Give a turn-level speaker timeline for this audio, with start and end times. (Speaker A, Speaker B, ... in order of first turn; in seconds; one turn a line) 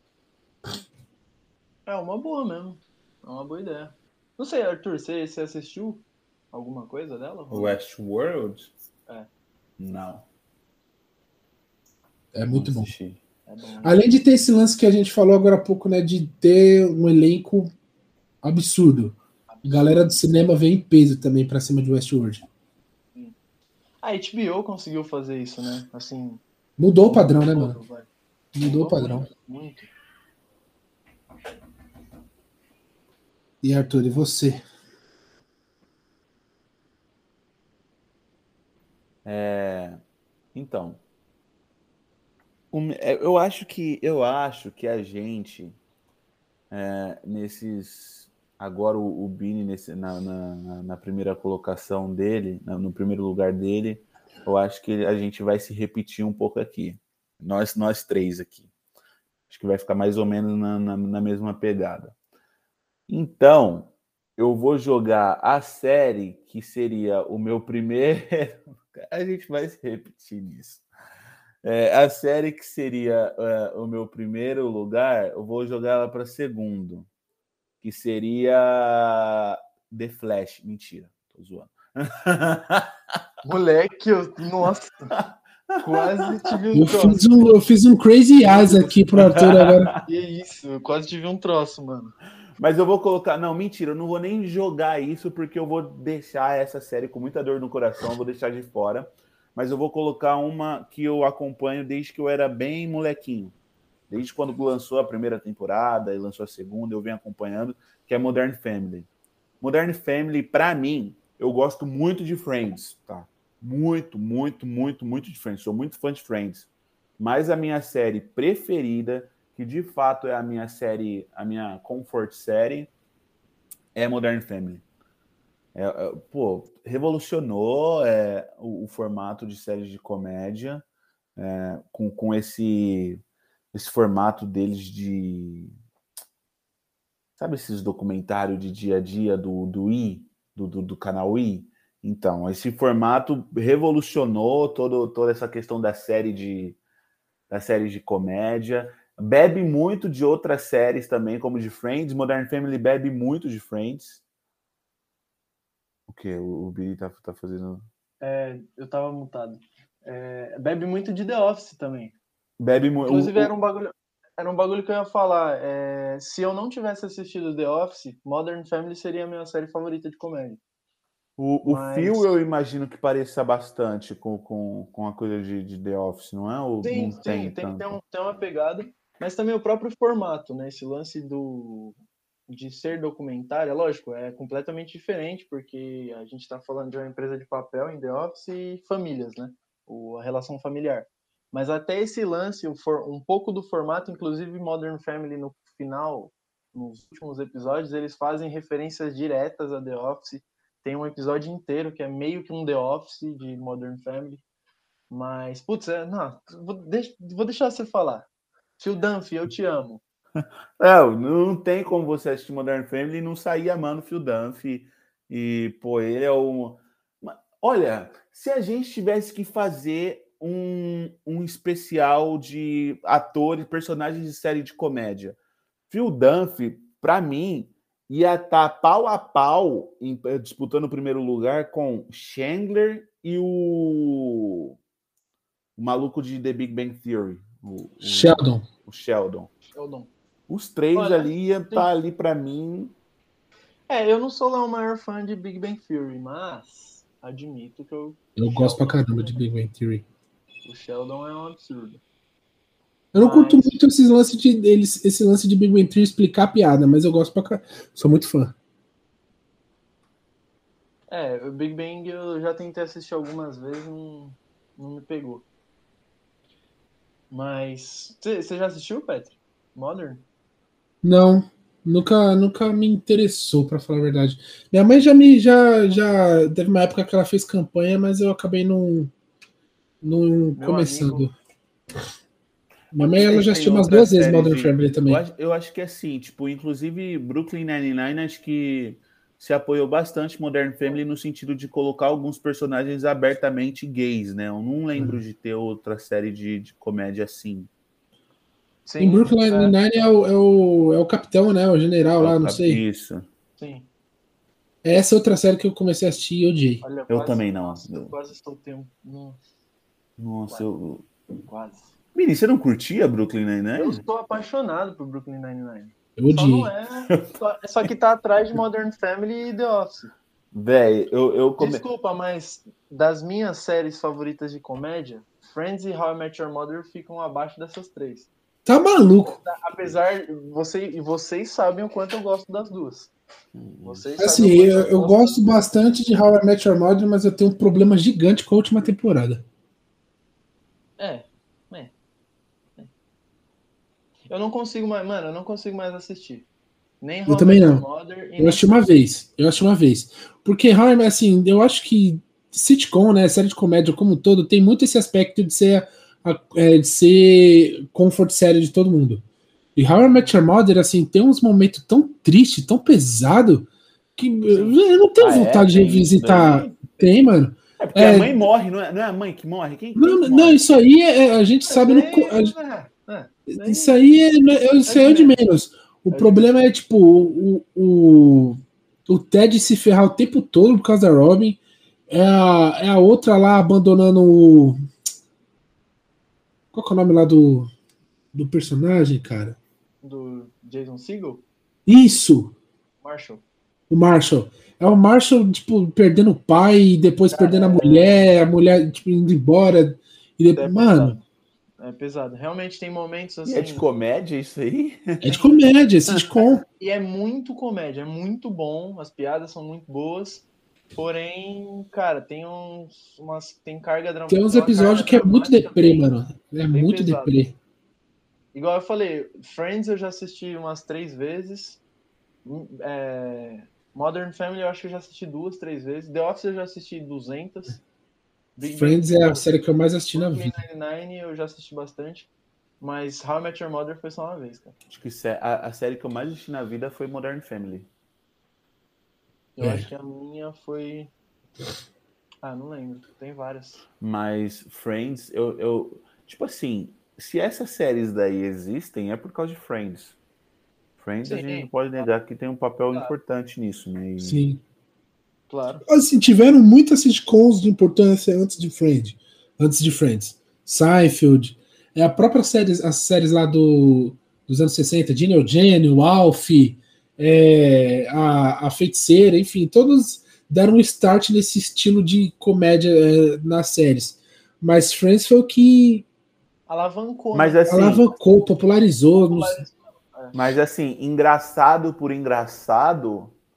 Speaker A: 1.9-7.8
Speaker B: 7.5-8.7
Speaker B: 9.8-10.2
Speaker C: 12.3-12.9
Speaker B: 12.5-13.2
Speaker A: 13.5-14.0
Speaker C: 13.8-17.7
Speaker C: 18.4-22.4
Speaker A: 19.5-20.2
Speaker A: 24.0-26.4
Speaker C: 26.8-27.8
Speaker A: 27.1-28.1
Speaker C: 28.6-29.3
Speaker A: 28.6-29.9
Speaker C: 33.6-34.6
Speaker B: 39.2-40.0
Speaker B: 40.5-41.0
Speaker B: 42.7-45.8
Speaker B: 46.7-58.6
Speaker B: 59.5-62.1
Speaker B: 63.1-70.8
Speaker B: 71.6-77.1
Speaker B: 77.8-82.9
Speaker A: 83.4-85.1
Speaker B: 85.1-86.5
Speaker A: 85.8-87.2
Speaker C: 86.8-89.9
Speaker A: 88.5-89.0
Speaker B: 89.1-90.0
Speaker A: 90.0-92.2
Speaker B: 92.6-103.5
Speaker B: 104.1-109.1
Speaker B: 109.6-122.9
Speaker B: 124.0-124.8
Speaker B: 125.8-130.8
Speaker B: 131.4-133.2
Speaker B: 133.7-135.7
Speaker B: 137.4-146.8
Speaker B: 147.5-154.2
Speaker B: 156.1-157.9
Speaker A: 158.2-162.2
Speaker B: 162.6-163.5
Speaker A: 163.0-170.6
Speaker B: 171.4-177.9
Speaker A: 171.6-172.3
Speaker A: 176.8-182.0
Speaker A: 182.5-204.4
Speaker A: 205.1-208.3
Speaker A: 208.8-210.0
Speaker B: 210.4-225.4
Speaker B: 225.9-234.8
Speaker B: 235.8-239.5
Speaker C: 238.0-238.7
Speaker A: 239.7-240.1
Speaker B: 240.5-242.9
Speaker A: 240.9-241.9
Speaker A: 243.9-249.4
Speaker C: 248.4-250.1
Speaker A: 250.7-252.0
Speaker C: 253.1-258.6
Speaker A: 253.2-253.8
Speaker A: 261.1-265.5
Speaker A: 267.3-270.2
Speaker C: 271.0-279.1
Speaker C: 280.0-281.3
Speaker A: 280.6-281.3
Speaker C: 282.9-285.2
Speaker B: 283.0-297.7
Speaker A: 298.9-299.8
Speaker C: 299.0-302.8
Speaker B: 302.2-303.3
Speaker A: 303.6-303.9
Speaker C: 304.8-306.8
Speaker A: 306.8-309.4
Speaker B: 307.1-308.1
Speaker B: 310.2-311.1
Speaker A: 311.5-311.9
Speaker B: 312.1-314.0
Speaker A: 313.8-320.1
Speaker C: 316.2-316.7
Speaker B: 320.5-321.8
Speaker A: 321.6-328.3
Speaker C: 328.7-329.4
Speaker A: 329.3-333.1
Speaker B: 333.6-334.0
Speaker A: 333.8-335.5
Speaker C: 334.2-339.4
Speaker A: 341.0-341.9
Speaker A: 344.3-346.5
Speaker A: 347.0-348.7
Speaker C: 347.3-347.9
Speaker C: 348.4-359.2
Speaker C: 359.8-368.3
Speaker A: 364.5-364.8
Speaker B: 365.2-366.9
Speaker B: 367.8-370.8
Speaker C: 370.0-372.5
Speaker A: 371.7-374.0
Speaker C: 373.5-381.6
Speaker A: 374.9-375.4
Speaker A: 376.1-376.5
Speaker C: 382.1-384.8
Speaker C: 386.7-387.7
Speaker C: 388.3-389.6
Speaker A: 390.0-391.4
Speaker C: 391.9-392.5
Speaker A: 393.0-393.4
Speaker C: 393.9-401.2
Speaker A: 397.3-398.3
Speaker A: 400.5-401.2
Speaker A: 401.8-403.9
Speaker B: 403.4-405.4
Speaker C: 405.2-406.6
Speaker A: 406.6-416.1
Speaker C: 414.3-417.5
Speaker A: 416.7-417.4
Speaker A: 418.5-421.8
Speaker A: 422.4-427.8
Speaker A: 428.6-429.6
Speaker C: 428.6-430.6
Speaker A: 430.1-434.7
Speaker B: 434.9-437.9
Speaker A: 439.6-441.1
Speaker C: 439.6-439.9
Speaker A: 442.4-443.8
Speaker B: 444.0-450.2
Speaker B: 451.0-454.4
Speaker A: 451.2-452.1
Speaker C: 454.2-454.6
Speaker A: 455.5-455.9
Speaker C: 455.9-476.1
Speaker A: 476.7-478.1
Speaker B: 477.3-478.1
Speaker C: 477.7-479.6
Speaker A: 479.1-480.5
Speaker B: 480.3-483.3